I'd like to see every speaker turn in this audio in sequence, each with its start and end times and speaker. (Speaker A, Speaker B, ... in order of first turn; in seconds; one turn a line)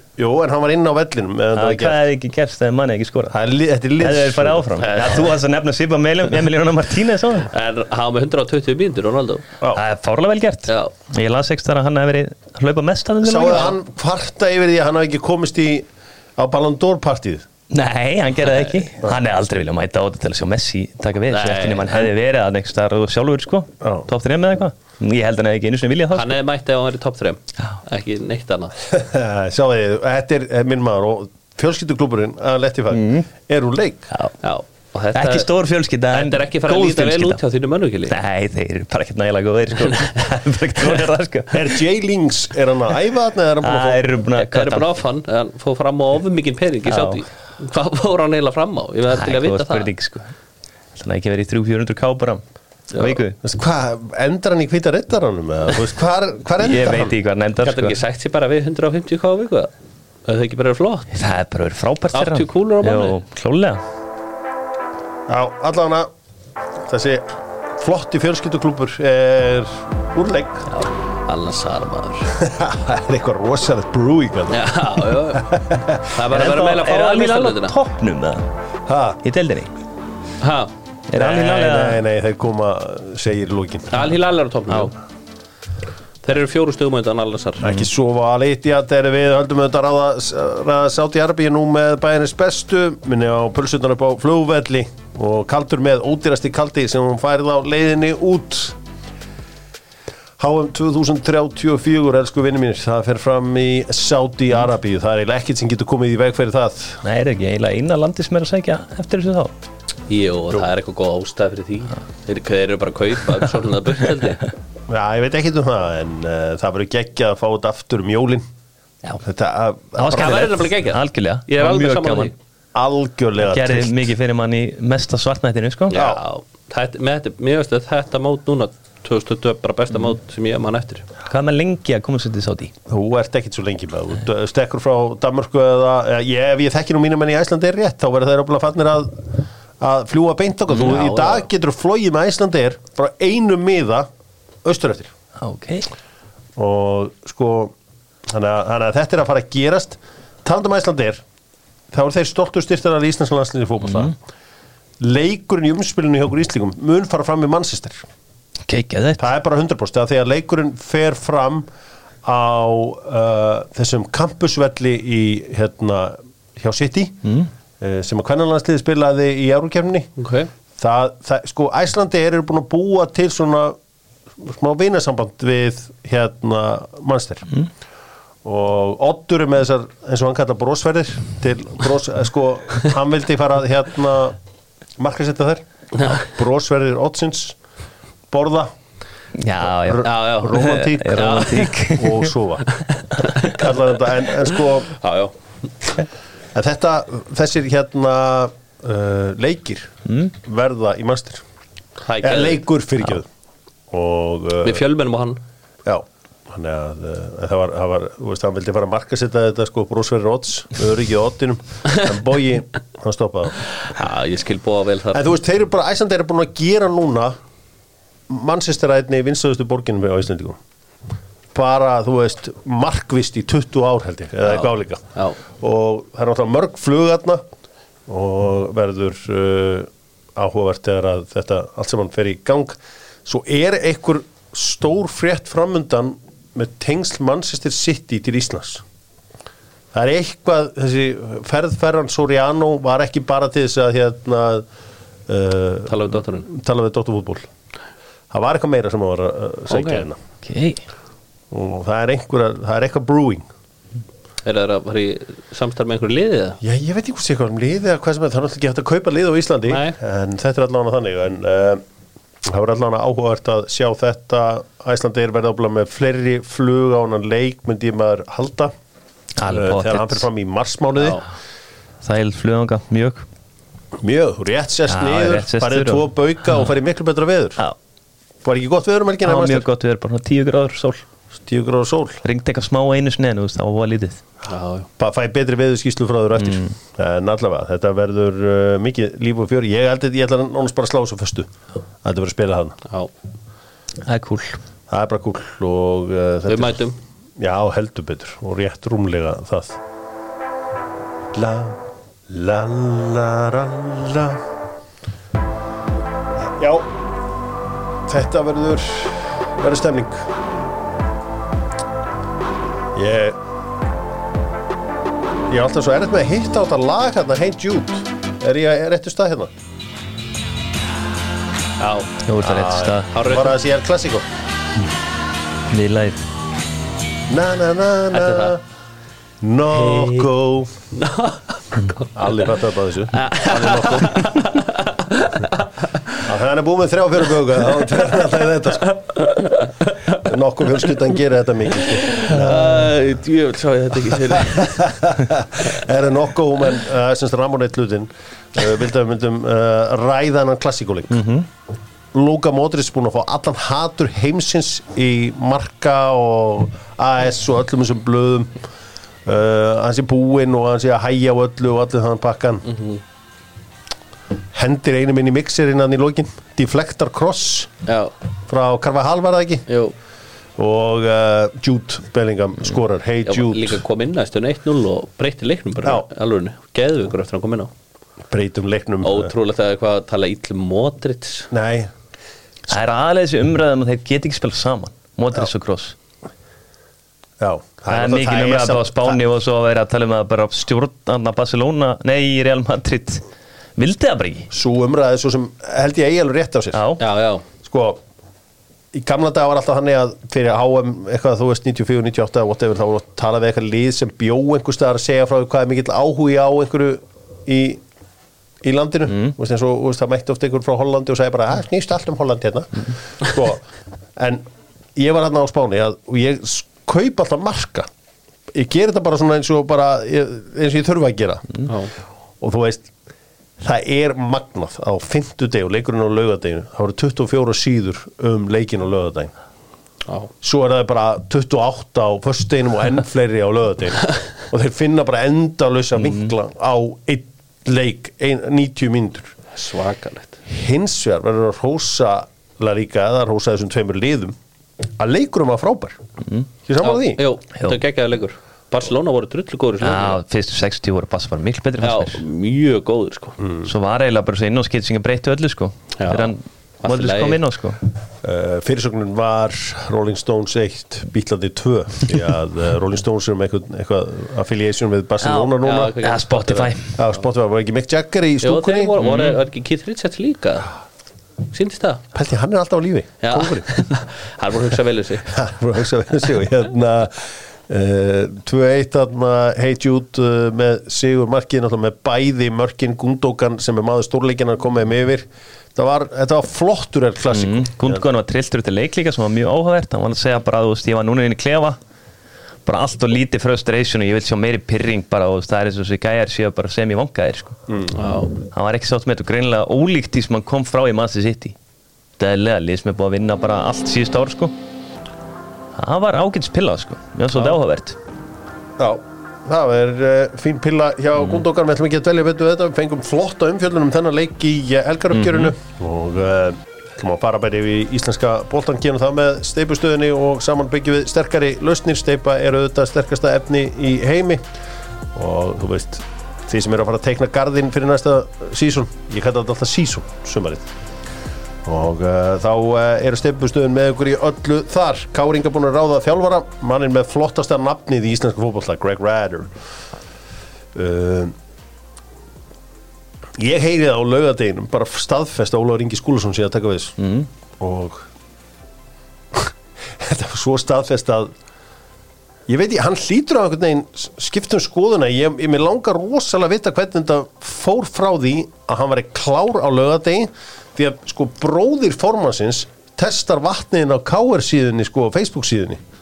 Speaker A: 0.2-2.0
Speaker B: 1.5-3.3
Speaker A: 3.3-4.9
Speaker B: 4.0-7.5
Speaker C: 7.5-9.4
Speaker B: 9.7-13.7
Speaker A: 13.2-17.4
Speaker B: 17.7-26.4
Speaker C: 21.3-22.0
Speaker A: 23.8-24.1
Speaker C: 26.1-28.7
Speaker A: 28.9-34.1
Speaker B: 32.9-33.2
Speaker C: 34.4-35.5
Speaker B: 35.1-37.4
Speaker C: 36.1-38.1
Speaker B: 38.1-41.7
Speaker A: 41.5-44.0
Speaker B: 43.6-44.9
Speaker C: 44.4-49.9
Speaker B: 46.9-47.2
Speaker B: 49.2-50.3
Speaker B: 50.9-53.4
Speaker A: 53.4-57.1
Speaker B: 56.6-58.0
Speaker C: 57.6-59.7
Speaker C: 60.2-61.1
Speaker B: 61.1-63.8
Speaker C: 62.1-63.1
Speaker A: 65.3-66.1
Speaker A: 66.8-70.7
Speaker C: 70.7-72.3
Speaker A: 72.3-76.1
Speaker C: 74.5-77.8
Speaker B: 76.3-78.4
Speaker A: 78.9-79.2
Speaker B: 79.2-79.7
Speaker C: 80.4-80.7
Speaker B: 81.1-82.0
Speaker A: 81.2-84.0
Speaker C: 83.9-84.9
Speaker C: 86.2-87.6
Speaker A: 87.6-98.8
Speaker A: 100.4-107.0
Speaker B: 107.0-109.5
Speaker C: 110.1-114.4
Speaker A: 114.9-118.5
Speaker A: 119.2-120.6
Speaker B: 120.0-122.3
Speaker C: 120.1-122.3
Speaker A: 122.7-124.1
Speaker B: 123.4-126.0
Speaker C: 125.9-131.1
Speaker A: 125.9-126.2
Speaker B: 131.3-132.7
Speaker A: 132.9-144.1
Speaker C: 140.7-141.4
Speaker A: 144.6-145.1
Speaker B: 145.4-145.9
Speaker A: 146.6-147.7
Speaker A: 148.3-151.2
Speaker A: 151.9-154.1
Speaker B: 153.8-154.1
Speaker A: 155.0-158.1
Speaker B: 158.7-159.3
Speaker A: 159.2-161.7
Speaker A: 162.2-167.2
Speaker A: 167.8-170.1
Speaker C: 170.2-170.5
Speaker A: 170.8-173.8
Speaker A: 174.4-177.5
Speaker A: 178.4-184.4
Speaker A: 185.0-187.6
Speaker C: 186.0-186.2
Speaker A: 188.3-188.7
Speaker B: 189.4-192.3
Speaker A: 189.6-192.7
Speaker C: 190.0-191.7
Speaker C: 193.2-193.6
Speaker A: 193.4-194.9
Speaker C: 194.9-195.3
Speaker A: 196.5-201.4
Speaker B: 200.1-200.3
Speaker C: 202.1-202.6
Speaker A: 202.2-203.3
Speaker A: 203.9-204.8
Speaker C: 204.6-205.4
Speaker A: 205.8-213.6
Speaker C: 213.8-215.3
Speaker A: 215.1-217.4
Speaker A: 218.3-220.6
Speaker A: 221.5-225.0
Speaker C: 224.5-225.4
Speaker A: 225.6-227.4
Speaker A: 228.1-238.8
Speaker A: 239.9-244.7
Speaker A: 245.3-247.5
Speaker C: 245.9-246.5
Speaker A: 248.3-250.2
Speaker C: 249.7-250.1
Speaker B: 250.4-250.8
Speaker A: 251.5-253.5
Speaker C: 254.4-256.6
Speaker A: 256.6-261.8
Speaker C: 259.7-259.9
Speaker A: 262.4-268.7
Speaker B: 269.4-270.3
Speaker A: 269.5-271.2
Speaker B: 272.0-273.2
Speaker A: 274.0-277.6
Speaker B: 274.9-276.1
Speaker A: 278.4-279.7
Speaker B: 279.2-281.0
Speaker A: 281.4-282.2
Speaker B: 282.2-284.2
Speaker C: 284.5-284.9
Speaker A: 285.0-291.5
Speaker B: 286.4-286.7
Speaker A: 292.0-292.8
Speaker B: 294.0-294.6
Speaker A: 294.9-296.8
Speaker C: 296.5-297.0
Speaker A: 297.4-299.8
Speaker A: 301.3-304.4
Speaker A: 306.4-306.9
Speaker A: 308.1-310.3
Speaker A: 312.9-313.4
Speaker A: 315.5-319.5
Speaker C: 321.8-322.2
Speaker B: 322.2-323.1
Speaker A: 322.4-324.3
Speaker C: 323.1-323.6
Speaker B: 325.7-326.2
Speaker A: 327.3-328.6
Speaker C: 328.1-328.6
Speaker A: 329.4-330.7
Speaker C: 329.7-330.3
Speaker C: 330.9-332.3
Speaker A: 332.1-334.2
Speaker C: 333.1-336.2
Speaker A: 336.2-339.0
Speaker C: 337.7-338.1
Speaker C: 338.9-340.2
Speaker A: 340.2-342.9
Speaker C: 341.9-344.9
Speaker A: 344.3-351.2
Speaker B: 351.1-351.4
Speaker A: 352.1-358.5
Speaker A: 359.2-362.6
Speaker C: 362.7-363.0
Speaker A: 364.5-367.7
Speaker C: 367.9-368.1
Speaker A: 368.5-369.7
Speaker C: 369.7-369.9
Speaker A: 370.6-373.8
Speaker C: 373.2-377.7
Speaker A: 378.3-379.3
Speaker C: 379.0-381.5
Speaker A: 381.5-381.9
Speaker B: 382.7-385.9
Speaker A: 387.4-389.2
Speaker B: 387.9-393.2
Speaker B: 393.8-394.5
Speaker A: 394.5-396.8
Speaker B: 396.7-397.0
Speaker C: 397.0-397.4
Speaker A: 397.6-398.0
Speaker A: 398.9-407.8
Speaker A: 408.6-413.6
Speaker B: 409.1-409.3
Speaker A: 414.1-414.4
Speaker A: 414.9-417.9
Speaker A: 418.5-421.7
Speaker A: 422.4-422.9
Speaker A: 423.6-429.3
Speaker A: 430.4-439.3
Speaker B: 436.0-436.3
Speaker C: 439.5-440.4
Speaker A: 440.5-446.0
Speaker A: 446.6-447.2
Speaker C: 446.8-450.2
Speaker B: 449.8-452.2
Speaker C: 451.8-453.4
Speaker A: 453.4-453.7
Speaker B: 453.6-457.8
Speaker C: 456.0-457.4
Speaker A: 458.2-466.0
Speaker B: 465.2-466.9
Speaker C: 465.6-466.7
Speaker A: 467.0-468.9
Speaker C: 468.4-470.7
Speaker B: 469.0-469.4
Speaker C: 471.5-472.0
Speaker A: 472.1-473.7
Speaker C: 473.2-475.3
Speaker A: 475.2-488.0
Speaker B: 487.3-491.8
Speaker B: 492.6-497.6
Speaker A: 497.7-498.0
Speaker C: 497.9-498.3
Speaker B: 498.5-501.5
Speaker B: 502.2-504.5
Speaker B: 505.8-508.0
Speaker A: 508.8-524.5
Speaker B: 515.1-515.5
Speaker A: 525.1-530.7
Speaker A: 531.6-539.5
Speaker A: 540.7-541.3
Speaker A: 543.4-547.0
Speaker B: 547.0-547.3
Speaker A: 547.6-548.0
Speaker A: 549.3-551.3
Speaker A: 552.5-565.8